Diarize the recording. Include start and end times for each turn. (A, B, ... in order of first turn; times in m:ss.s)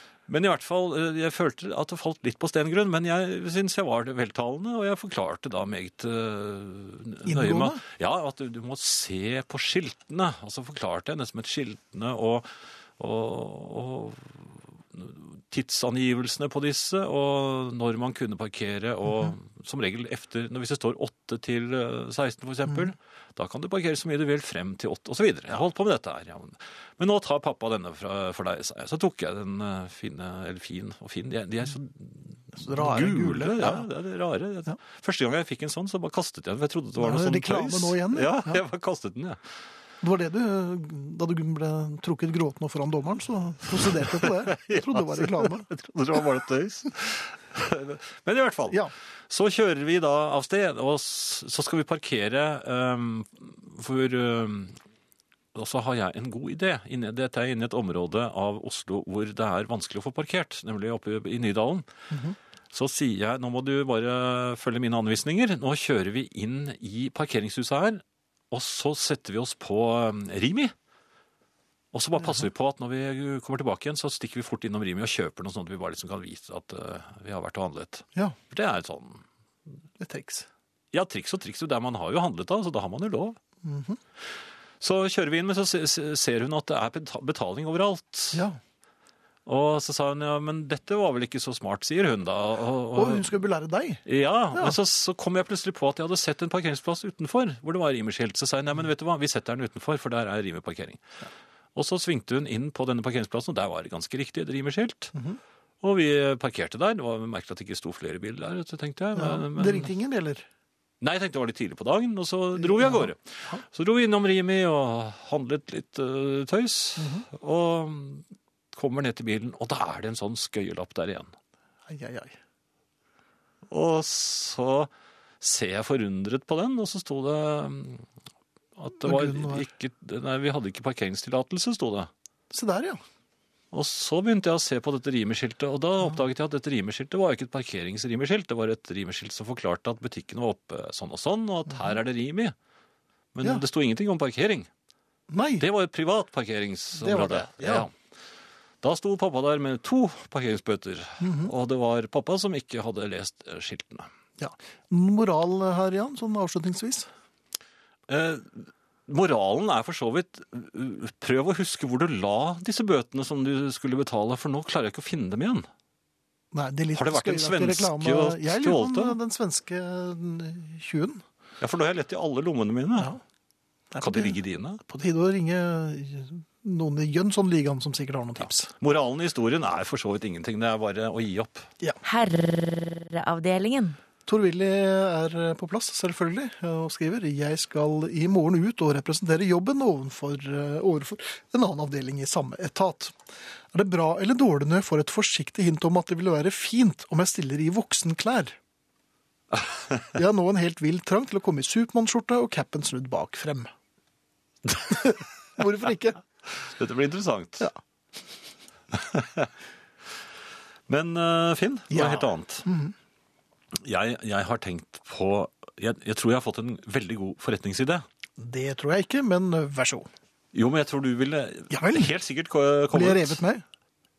0:00.3-0:39.4 A
0:07.2-0:07.8 B
0:32.6-0:33.9 B
0:37.0-0:38.6 B
0:40.0-0:45.7 B
0:43.9-0:54.8 A
0:55.5-1:01.9 A
1:02.7-1:10.7 A
1:11.9-1:19.2 A
1:20.0-1:20.5 B
1:20.9-1:23.4 A
1:23.6-1:24.0 B
1:24.8-1:28.4 A
1:28.3-1:28.6 B
1:29.5-1:33.3 A
1:33.0-1:34.8 B
1:34.0-1:41.0 A
1:41.8-1:45.1 A
1:45.8-1:49.9 A
1:49.2-1:50.4 B
1:51.0-2:01.3 A
1:52.6-1:53.6 B
1:57.0-1:57.3 B
2:01.9-2:02.4 B
2:03.7-2:08.1 A
2:08.8-2:12.1 A
2:09.0-2:09.7 B
2:12.5-2:13.0 B
2:13.7-2:22.6 A
2:23.3-2:24.7 A
2:25.3-2:25.6 B
2:25.6-2:27.9 A
2:27.0-2:27.9 B
2:28.8-2:34.1 A
2:31.2-2:31.5 B
2:34.4-2:37.1 B
2:38.1-2:45.7 A
2:46.5-2:51.2 B
2:46.9-2:49.2 A
2:51.6-2:53.1 A
2:53.9-2:58.7 B
2:54.0-2:54.8 A
2:58.4-3:01.7 A
3:02.0-3:04.0 C
3:04.3-3:13.2 B
3:13.7-3:18.6 B
3:20.1-3:23.7 B
3:24.9-3:26.2 B
3:26.6-3:27.7 A
3:28.9-3:29.5 A
3:30.9-3:32.7 A
3:31.9-3:32.9 B
3:33.7-3:38.0 A
3:38.4-3:40.1 B
3:40.5-3:43.4 A
3:41.7-3:42.1 B
3:42.9-3:43.6 B